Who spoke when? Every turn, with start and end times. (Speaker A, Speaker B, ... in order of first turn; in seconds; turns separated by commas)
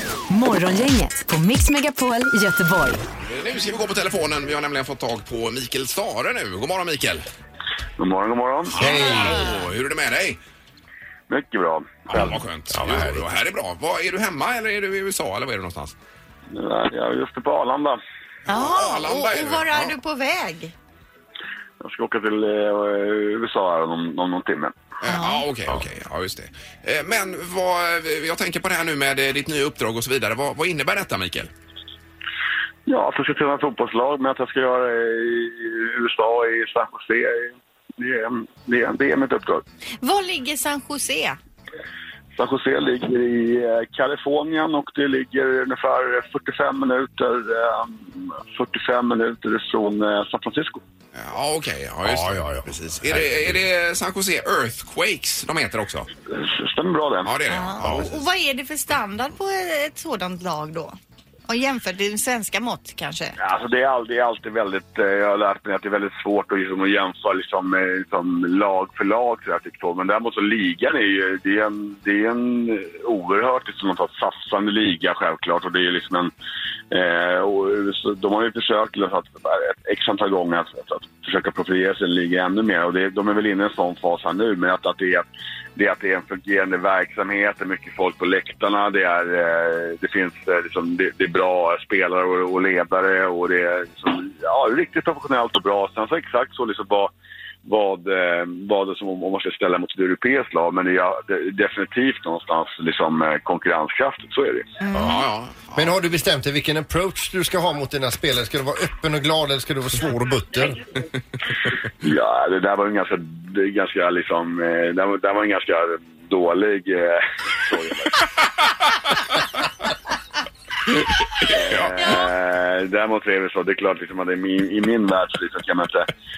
Speaker A: 0.3-3.0, Speaker B: 3.2-7.2, Speaker C: 8.0-8.8, Speaker B: 8.7-10.4, Speaker D: 8.8-9.7, Speaker E: 8.8-9.4, Speaker C: 11.3-12.4, Speaker B: 12.1-15.9, Speaker E: 12.7-13.2, Speaker C: 16.5-18.0, Speaker B: 18.5-19.9, Speaker D: 18.5-20.7, Speaker C: 21.8-24.7, Speaker B: 25.0-31.5, Speaker D: 25.0-25.4, Speaker C: 32.9-39.6, Speaker D: 40.0-41.4, Speaker C: 42.4-50.8, Speaker B: 51.1-56.1, Speaker E: 52.0-53.6, Speaker C: 56.3-57.3, Speaker B: 57.2-58.2, Speaker D: 57.5-61.0, Speaker D: 61.5-63.4, Speaker C: 63.4-76.3, Speaker C: 76.9-97.1, Speaker C: 97.6-104.7, Speaker D: 104.8-105.2, Speaker E: 104.9-105.2, Speaker B: 105.0-106.0, Speaker E: 105.7-110.8, Speaker C: 112.0-118.3, Speaker C: 121.3-126.1, Speaker B: 121.6-122.0, Speaker D: 122.0-122.2